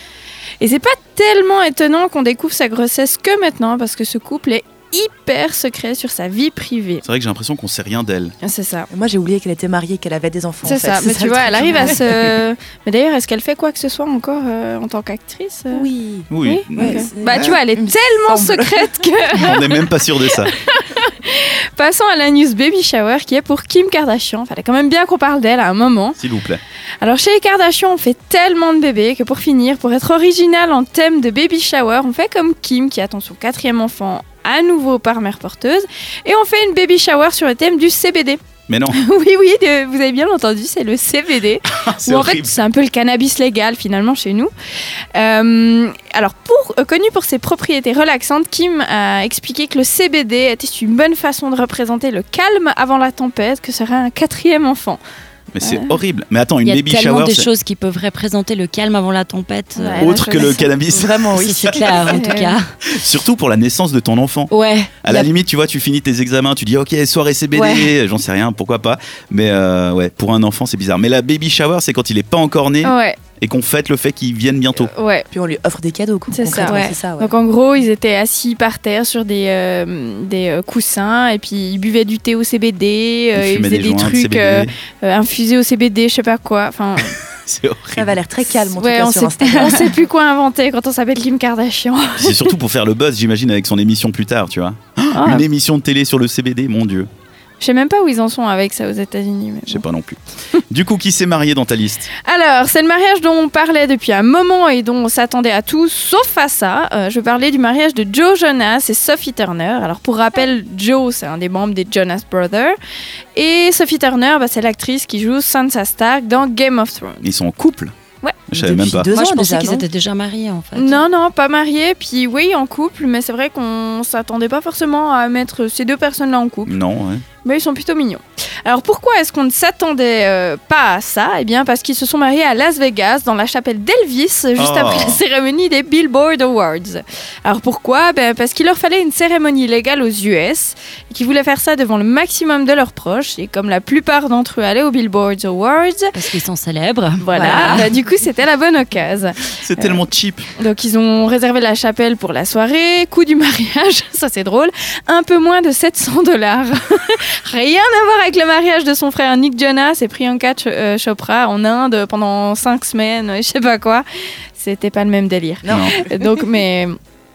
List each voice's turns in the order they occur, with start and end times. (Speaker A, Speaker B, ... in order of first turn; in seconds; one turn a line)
Speaker A: 0.6-7.0
Speaker B: 7.0-8.3
Speaker A: 8.4-8.9
Speaker C: 8.9-12.4
Speaker A: 10.6-15.9
Speaker C: 15.7-19.0
Speaker B: 16.3-17.6
Speaker A: 16.4-26.2
Speaker B: 19.3-20.5
Speaker B: 26.2-26.6
Speaker A: 27.0-44.5
Speaker B: 38.7-39.0
Speaker B: 41.7-42.6
Speaker A: 45.1-55.0
Speaker B: 55.5-57.5
Speaker A: 55.6-56.0
Speaker D: 56.6-60.5
Speaker A: 59.8-60.7
Speaker B: 60.0-62.2
Speaker C: 60.9-62.3
Speaker D: 61.4-62.7
Speaker A: 62.0-62.5
Speaker B: 62.8-64.5
Speaker D: 64.5-65.3
Speaker B: 65.0-74.9
Speaker D: 67.5-67.9
Speaker A: 72.8-73.2
Speaker A: 74.9-75.2
Speaker C: 75.3-77.3
Speaker A: 76.3-87.2
Speaker B: 83.3-84.7
Speaker B: 87.3-88.1
Speaker C: 88.0-90.0
Speaker A: 88.7-92.5
Speaker B: 92.2-97.1
Speaker A: 95.1-95.4
Speaker A: 97.6-99.8
Speaker B: 99.7-102.1
Speaker A: 102.2-112.8
Speaker A: 113.3-117.2
Speaker B: 117.2-117.9
Speaker B: 118.5-119.1
Speaker C: 118.5-119.8
Speaker D: 119.1-121.0
Speaker A: 120.8-126.8
Speaker B: 126.7-127.2
Speaker A: 127.4-146.2
Speaker B: 134.6-135.2
Speaker D: 146.1-147.9
Speaker A: 147.2-150.0
Speaker C: 147.3-147.8
Speaker B: 149.6-150.4
Speaker A: 150.6-164.0
Speaker A: 164.6-166.9
Speaker C: 165.6-166.5
Speaker B: 165.7-166.0